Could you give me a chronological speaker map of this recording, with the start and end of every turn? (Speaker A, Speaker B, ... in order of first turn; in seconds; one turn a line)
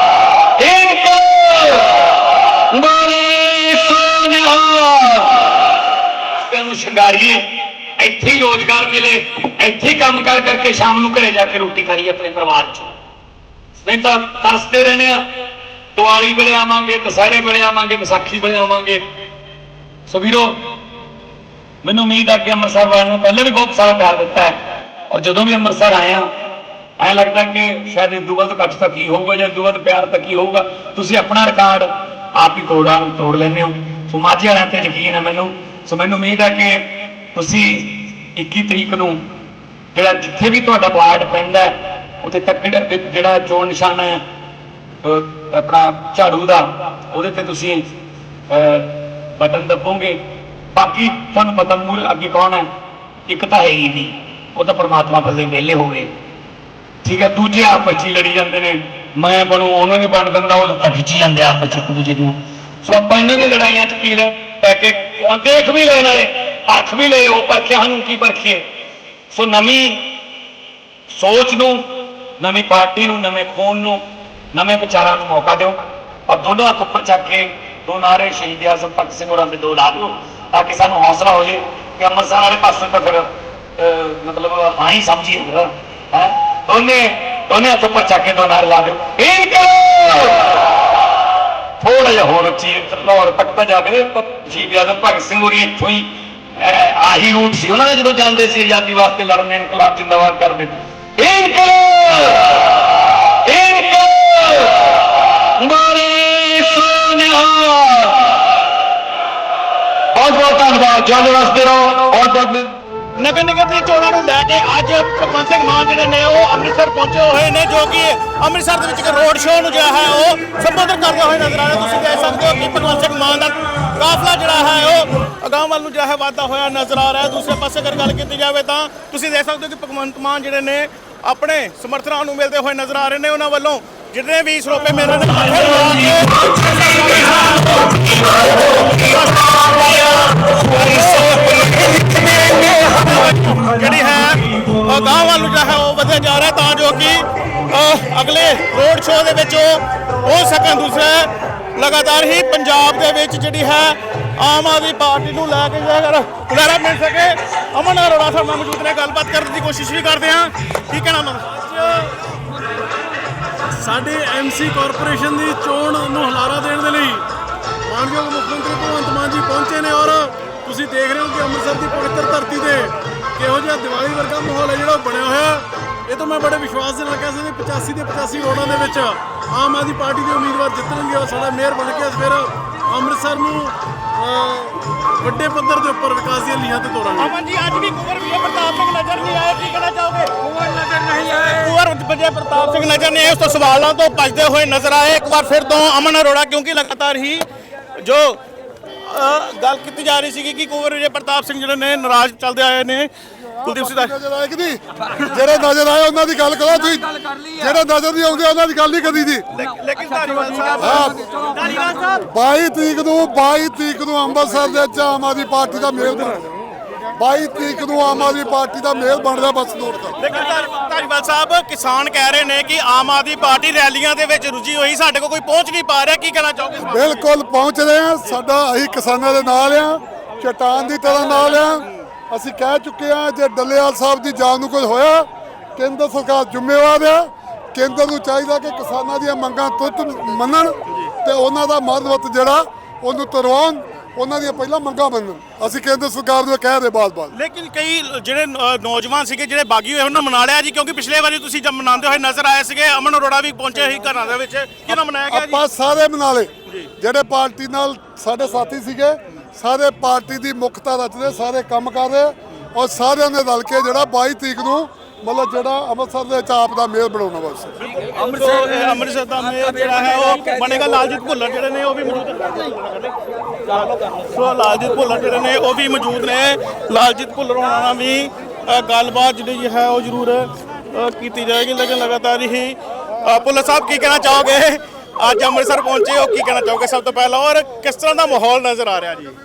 Speaker A: 0.6-2.1
Speaker A: 2.7-5.6
Speaker A: 6.4-12.9
Speaker A: 13.8-15.3
Speaker A: 15.9-19.0
Speaker A: 20.1-20.6
Speaker A: 21.8-26.3
Speaker A: 27.0-39.2
Speaker A: 40.0-44.2
Speaker A: 45.0-47.9
Speaker A: 48.5-50.2
Speaker A: 50.7-52.7
Speaker A: 53.3-56.1
Speaker A: 57.0-68.7
Speaker A: 69.3-70.2
Speaker A: 71.1-74.0
Speaker A: 74.5-83.3
Speaker A: 83.8-90.5
Speaker A: 91.8-102.6
Speaker A: 103.4-105.0
Speaker A: 105.6-108.4
Speaker A: 110.1-112.8
Speaker B: 113.2-162.2
Speaker C: 163.8-167.2
Speaker C: 167.9-187.3
Speaker B: 187.2-197.4
Speaker B: 198.0-198.4
Speaker B: 199.0-203.1
Speaker B: 203.6-204.1
Speaker D: 203.6-209.5
Speaker B: 205.1-205.4
Speaker B: 209.5-212.3
Speaker D: 210.8-211.2
Speaker D: 212.3-216.5
Speaker D: 217.2-220.2
Speaker B: 220.2-227.3
Speaker D: 226.8-247.3
Speaker B: 240.9-241.1
Speaker B: 247.3-255.6
Speaker D: 255.3-267.7
Speaker B: 267.8-289.4